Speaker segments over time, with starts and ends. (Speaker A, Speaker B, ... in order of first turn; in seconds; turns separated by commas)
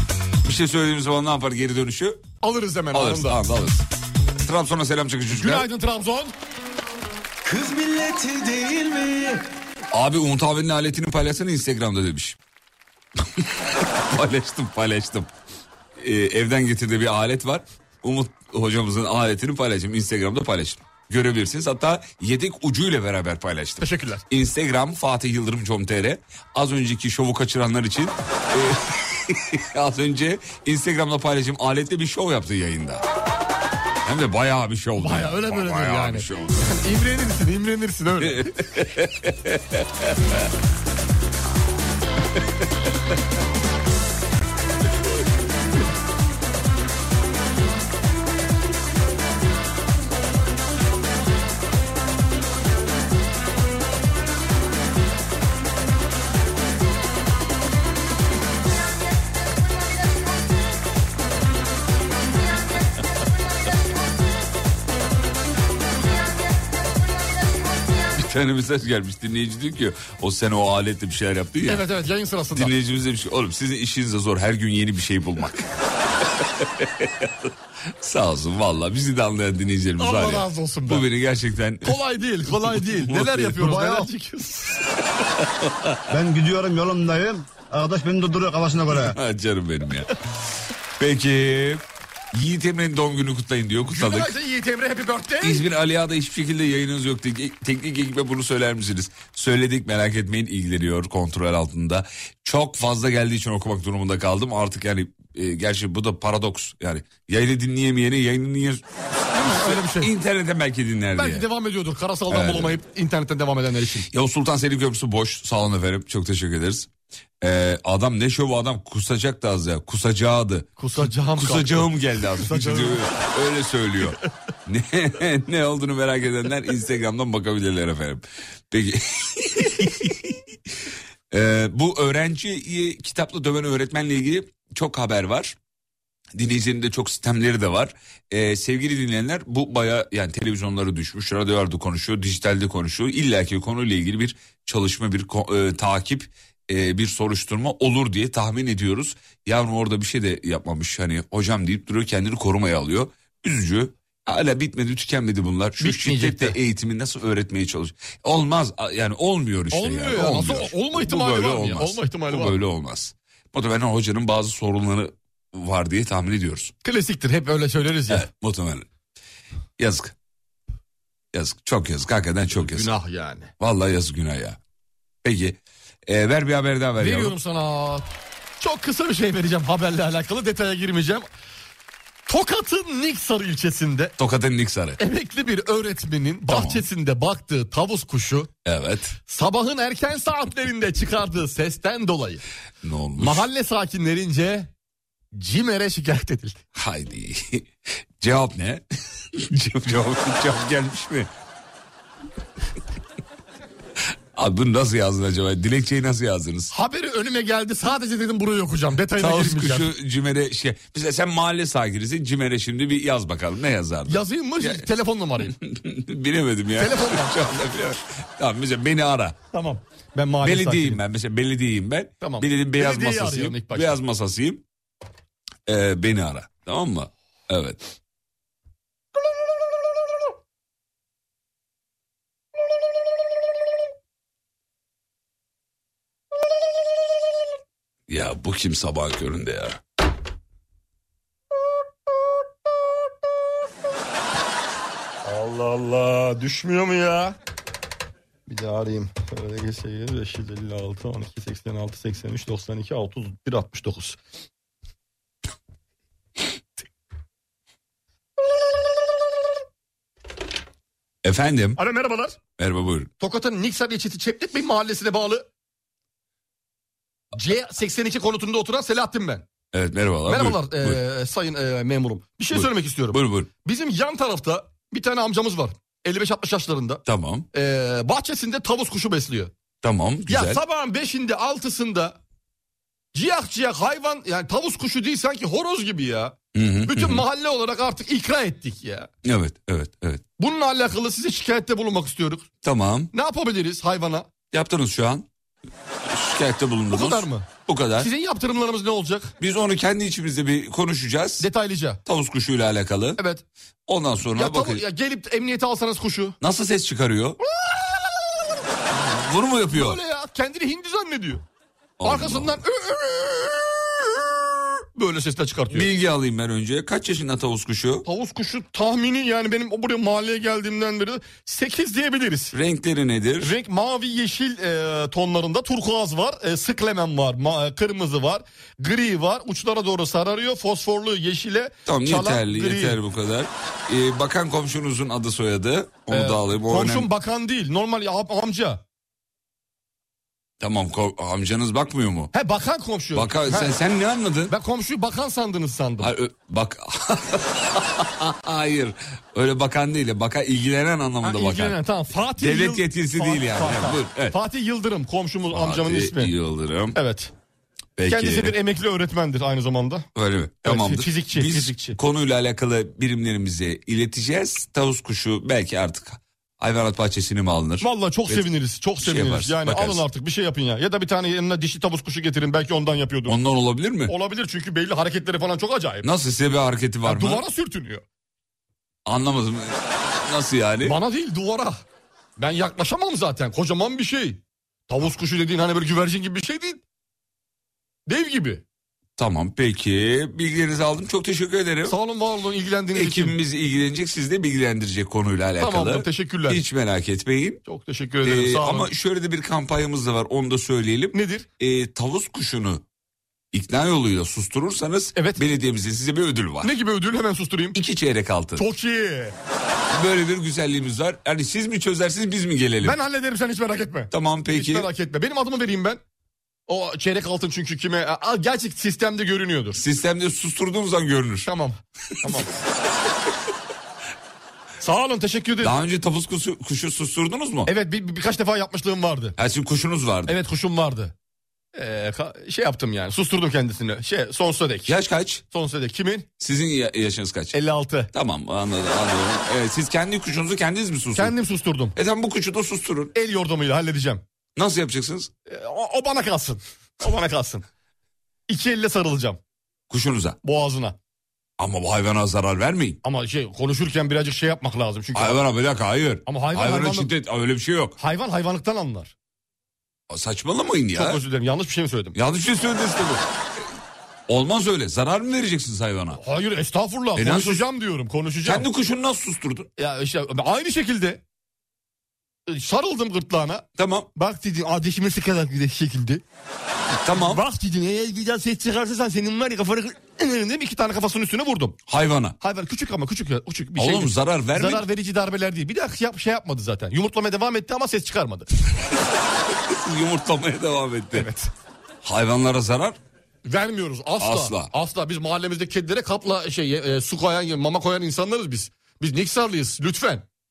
Speaker A: 0.4-2.2, Speaker B: 2.4-3.4, Speaker A: 2.9-3.9, Speaker A: 4.4-5.7, Speaker B: 5.3-6.3, Speaker C: 7.4-9.4, Speaker A: 9.9-12.4, Speaker A: 13.4-15.3, Speaker A: 16.0-33.0, Speaker B: 23.8-24.2, Speaker A: 34.0-36.8, Speaker B: 35.0-38.5, Speaker A: 38.2-40.4, Speaker A: 68.1-71.9, Speaker B: 71.7-72.7, Speaker A: 72.5-82.0, Speaker B: 80.0-81.1, Speaker B: 81.8-84.8, Speaker A: 82.5-83.6, Speaker D: 83.6-84.1, Speaker A: 85.4-86.0, Speaker D: 86.1-89.2, Speaker A: 89.0-90.1, Speaker A: 91.0-94.3, Speaker B: 93.8-95.6, Speaker A: 95.4-108.8, Speaker B: 109.3-110.1, Speaker A: 109.3-111.5, Speaker B: 111.2-114.1, Speaker A: 112.3-112.8, Speaker A: 114.1-116.9, Speaker A: 117.4-130.4, Speaker B: 120.8-123.1, Speaker A: 131.3-135.6, Speaker A: 136.3-166.7, Speaker B: 155.8-156.6, Speaker B: 159.7-162.6, Speaker B: 166.8-168.2, Speaker A: 168.1-168.9, Speaker A: 169.8-170.2, Speaker A: 171.3-172.9, Speaker B: 172.6-173.5, Speaker A: 173.6-174.6, Speaker A: 175.2-177.4, Speaker B: 177.0-178.1, Speaker B: 178.6-181.3, Speaker B: 182.3-184.2, Speaker A: 184.2-185.0, Speaker B: 185.0-188.5, Speaker A: 186.5-186.9, Speaker A: 188.7-189.2, Speaker B: 189.3-192.4, Speaker A: 192.8-193.5, Speaker B: 193.2-194.7, Speaker B: 195.3-196.6, Speaker A: 196.8-201.3, Speaker A: 204.3-206.7, Speaker B: 206.7-209.9, Speaker A: 209.2-214.9, Speaker B: 214.1-215.6, Speaker A: 215.4-219.4, Speaker B: 216.8-217.4, Speaker B: 219.5-221.0, Speaker A: 220.4-224.6, Speaker B: 222.2-224.0, Speaker A: 225.7-227.8, Speaker A: 238.1-239.8, Speaker B: 245.2-247.4, Speaker B: 248.5-254.2, Speaker A: 261.2-261.8, Speaker B: 261.8-262.4, Speaker A: 262.6-263.1, Speaker B: 263.2-265.5, Speaker B: 267.3-269.5, Speaker A: 269.7-271.0, Speaker B: 270.3-279.5, Speaker A: 272.5-273.5, Speaker A: 277.1-277.5, Speaker A: 279.8-280.6, Speaker B: 280.3-282.2, Speaker B: 283.1-289.1, Speaker A: 286.5-287.2, Speaker A: 289.2-290.2, Speaker B: 290.4-292.5, Speaker A: 292.6-293.1, Speaker B: 293.1-294.3, Speaker A: 294.5-295.3, Speaker A: 296.0-298.1, Speaker B: 296.9-299.3, Speaker A: 299.4-301.5, Speaker B: 301.4-302.0, Speaker A: 302.1-303.2, Speaker B: 303.2-303.4, Speaker A: 303.9-304.8, Speaker B: 304.3-306.4, Speaker A: 306.4-307.4, Speaker B: 307.5-308.5, Speaker A: 308.9-310.0, Speaker B: 309.7-311.4, Speaker A: 312.0-312.6, Speaker B: 312.0-315.9, Speaker A: 315.7-318.1, Speaker B: 318.1-322.5, Speaker A: 322.5-323.6, Speaker B: 323.4-333.0, Speaker A: 331.9-337.1, Speaker B: 336.1-338.8, Speaker A: 340.6-342.3, Speaker B: 342.3-343.8, Speaker A: 343.1-344.6, Speaker B: 344.5-346.1, Speaker A: 346.0-351.8, Speaker B: 351.2-356.3, Speaker A: 352.4-354.4, Speaker A: 355.5-357.0, Speaker B: 356.9-357.3, Speaker A: 358.0-358.6, Speaker B: 358.1-360.1, Speaker A: 360.1-370.1, Speaker B: 360.6-362.0, Speaker B: 367.8-373.4, Speaker A: 373.3-374.1, Speaker B: 374.1-376.1, Speaker A: 376.0-377.4, Speaker B: 377.1-378.0, Speaker A: 379.1-381.0, Speaker B: 380.8-381.8, Speaker B: 382.4-386.8, Speaker B: 388.1-388.6, Speaker A: 389.2-392.0, Speaker B: 391.9-393.4, Speaker A: 392.9-397.6, Speaker B: 395.6-396.6, Speaker B: 397.6-398.9, Speaker A: 398.2-402.8, Speaker B: 401.1-401.5, Speaker A: 403.5-406.7, Speaker B: 405.2-405.4, Speaker B: 406.6-407.8, Speaker A: 407.7-408.7, Speaker B: 408.6-409.4, Speaker A: 409.9-413.0, Speaker B: 412.8-416.0, Speaker A: 414.1-414.9, Speaker B: 416.7-419.8, Speaker A: 419.8-421.5, Speaker B: 421.4-422.5, Speaker B: 424.8-425.8, Speaker A: 425.6-427.7, Speaker B: 427.7-429.4, Speaker A: 429.4-430.4, Speaker B: 430.3-431.1, Speaker B: 431.8-434.9, Speaker A: 434.9-435.4, Speaker B: 435.5-436.3, Speaker A: 436.4-437.6, Speaker B: 437.5-438.1, Speaker A: 438.1-441.4, Speaker B: 441.1-442.0, Speaker A: 442.0-443.1, Speaker B: 443.1-444.2, Speaker A: 444.6-445.3, Speaker B: 445.5-447.7, Speaker B: 448.5-449.4, Speaker A: 449.9-450.4, Speaker B: 450.4-451.0, Speaker A: 451.6-453.0, Speaker B: 453.0-455.4, Speaker A: 455.1-458.0, Speaker B: 456.3-457.1, Speaker B: 458.0-459.1, Speaker A: 460.1-461.2, Speaker B: 460.9-462.2, Speaker A: 462.1-463.6, Speaker A: 464.3-466.2, Speaker B: 466.2-468.7, Speaker A: 467.1-467.7, Speaker A: 468.4-469.7, Speaker B: 469.8-471.2, Speaker B: 472.5-476.2, Speaker A: 473.8-474.1, Speaker A: 477.0-477.4, Speaker B: 477.1-481.8, Speaker A: 481.9-482.4, Speaker B: 482.4-488.5, Speaker A: 483.8-484.9, Speaker A: 489.4-491.3, Speaker B: 491.1-491.5, Speaker A: 492.0-493.0, Speaker B: 493.4-500.2, Speaker A: 494.2-494.7